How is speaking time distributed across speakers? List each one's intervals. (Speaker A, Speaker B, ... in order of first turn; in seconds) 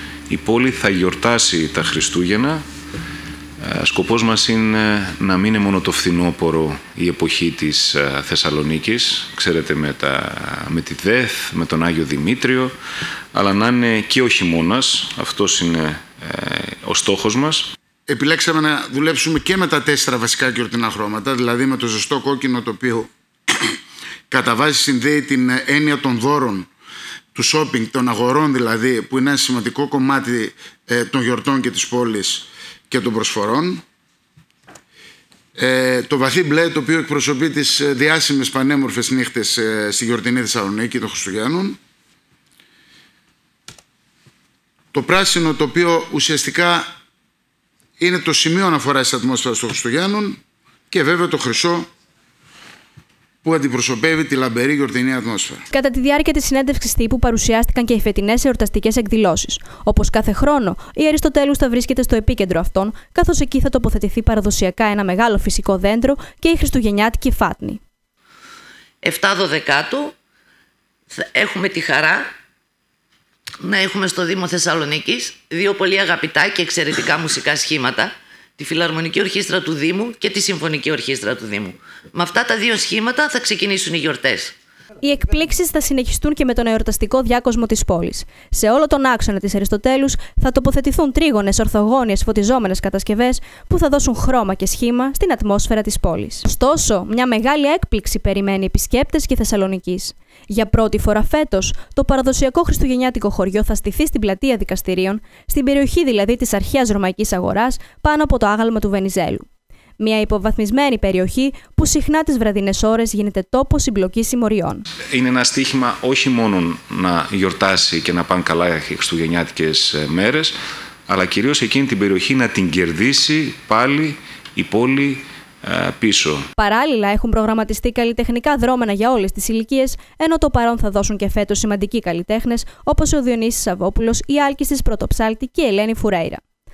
Speaker A: 0.3-2.6, 3.6-12.7, 13.3-17.7, 115.1-120.5, 121.1-126.5
Speaker B: 18.1-23.7, 24.3-26.7, 27.3-33.8, 35.5-41.8, 44.9-46.9, 48.0-50.4, 50.9-51.9, 53.4-55.6
Speaker C: 55.7-67.8, 85.0-109.5, 110.0-114.8, 126.6-136.4
Speaker D: 69.0-70.2, 71.1-72.3, 73.6-84.5